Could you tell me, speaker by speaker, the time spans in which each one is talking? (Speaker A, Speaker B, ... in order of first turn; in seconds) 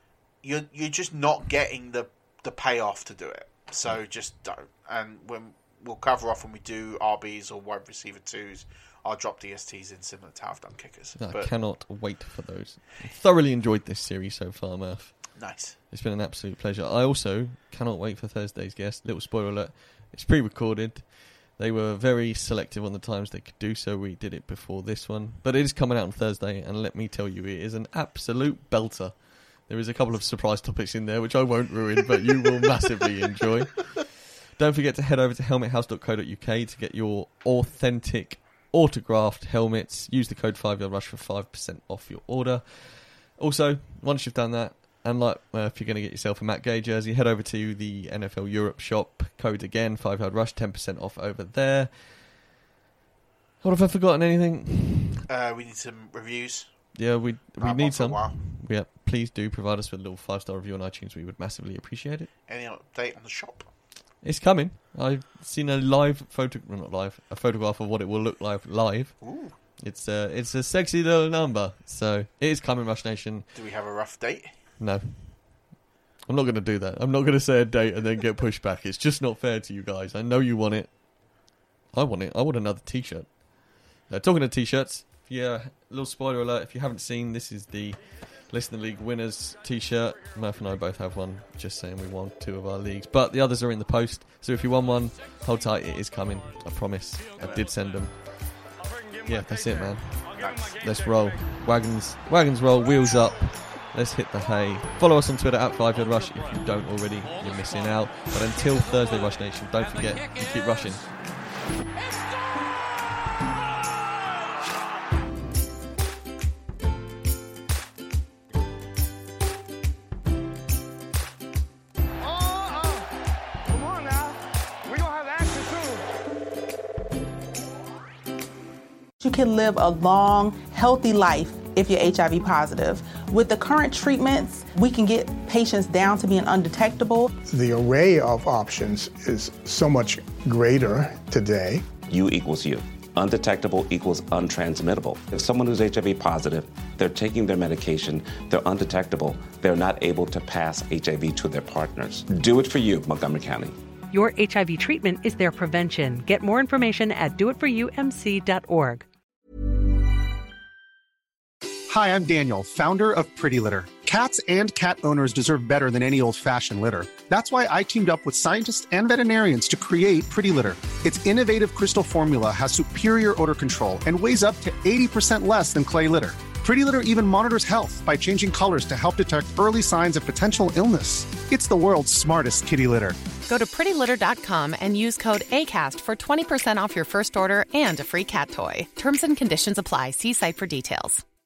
Speaker A: 0.4-11.5, 15.3-15.8, 55.3-56.7, 57.6-58.4, 62.5-63.7, 69.2-69.5, 73.5-74.5
Speaker B: 11.2-15.3, 15.9-52.2, 53.6-55.2, 56.9-62.3, 64.2-69.2, 69.8-73.5, 74.8-75.5, 76.3-81.0, 81.9-83.4, 84.0-98.6, 99.2-111.2
Speaker C: 129.2-137.3
Speaker D: 137.5-141.9
Speaker E: 142.0-153.8
Speaker F: 154.1-159.1
Speaker G: 161.9-183.2
Speaker H: 183.5-191.2